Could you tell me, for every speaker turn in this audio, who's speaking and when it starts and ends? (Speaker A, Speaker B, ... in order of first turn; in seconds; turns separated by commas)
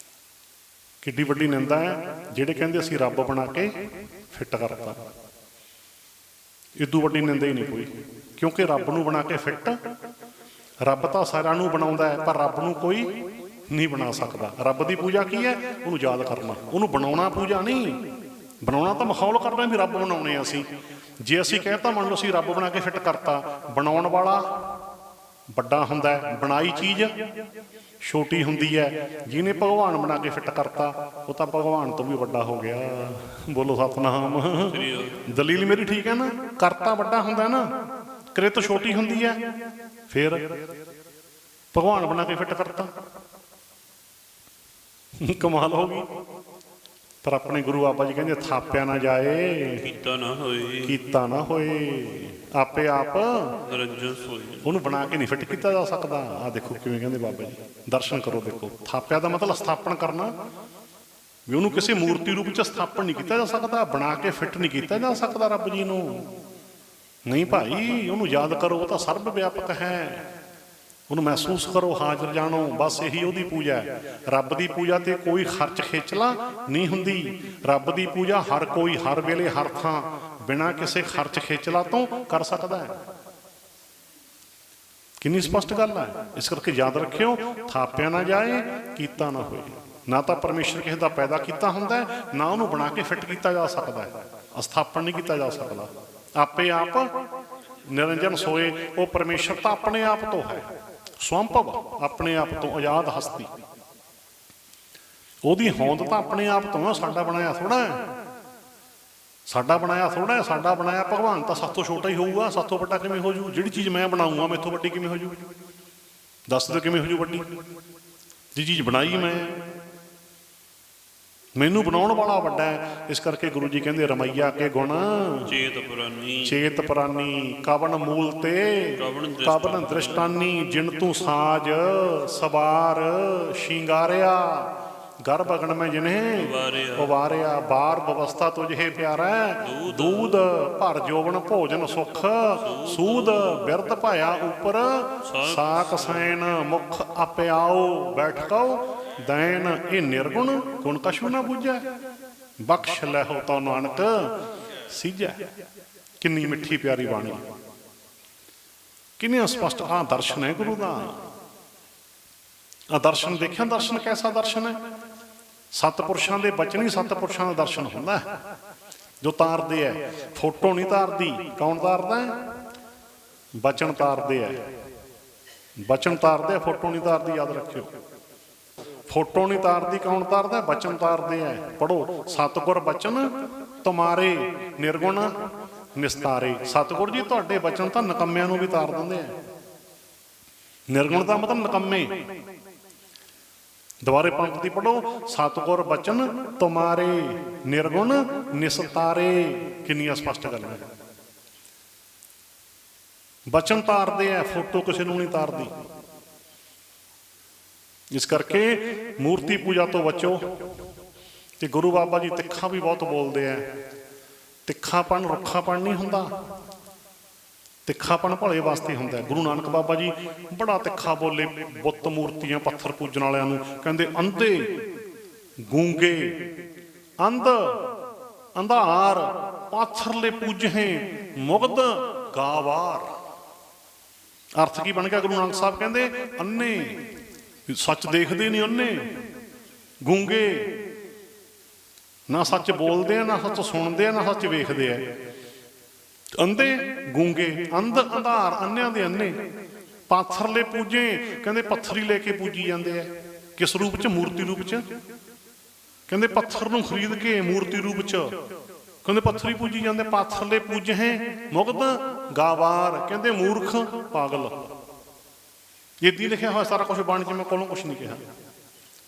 Speaker A: 1.0-3.7, Speaker A: 4.3-5.0, Speaker A: 6.8-9.8, Speaker A: 10.8-13.1, Speaker A: 13.7-18.0, Speaker A: 18.6-20.6, Speaker A: 21.2-24.4, Speaker A: 25.6-27.1, Speaker A: 28.0-37.7, Speaker B: 34.7-35.2, Speaker A: 38.3-39.4, Speaker A: 40.1-40.4, Speaker A: 41.7-42.9, Speaker A: 45.2-46.0, Speaker A: 47.2-49.8, Speaker B: 49.8-50.9, Speaker A: 50.9-53.5, Speaker B: 53.6-54.7, Speaker A: 54.6-60.3, Speaker A: 61.5-66.2, Speaker A: 67.3-70.2, Speaker A: 71.1-82.9, Speaker A: 85.2-97.1, Speaker A: 97.9-100.7, Speaker A: 101.2-103.5, Speaker A: 105.4-108.0, Speaker A: 109.5-115.3, Speaker A: 116.5-117.4, Speaker A: 118.5-119.5, Speaker A: 121.6-125.5, Speaker B: 125.5-126.6, Speaker A: 126.4-134.7, Speaker B: 129.0-130.3, Speaker A: 135.2-151.8, Speaker B: 136.3-137.2, Speaker B: 139.6-140.4, Speaker B: 142.6-143.6, Speaker B: 145.2-146.3, Speaker A: 152.6-154.3, Speaker A: 154.9-155.4, Speaker A: 156.2-157.4, Speaker A: 159.2-161.2, Speaker A: 162.9-164.7, Speaker A: 165.7-168.2, Speaker A: 169.2-172.3, Speaker A: 173.6-174.6, Speaker A: 175.8-177.9, Speaker A: 179.1-183.2, Speaker A: 183.8-185.3, Speaker A: 185.9-189.3, Speaker A: 190.9-192.1, Speaker A: 194.0-200.8, Speaker A: 203.5-205.7, Speaker A: 208.1-210.4, Speaker A: 211.6-213.6, Speaker A: 214.7-216.3, Speaker A: 217.8-224.6, Speaker A: 225.7-226.3, Speaker A: 227.2-227.6, Speaker A: 228.6-233.1, Speaker A: 234.6-236.9, Speaker A: 237.7-239.0, Speaker A: 240.0-240.6, Speaker A: 242.3-245.0, Speaker A: 246.4-249.3, Speaker A: 250.1-254.8, Speaker A: 256.1-258.3, Speaker A: 259.0-264.6, Speaker A: 266.0-268.2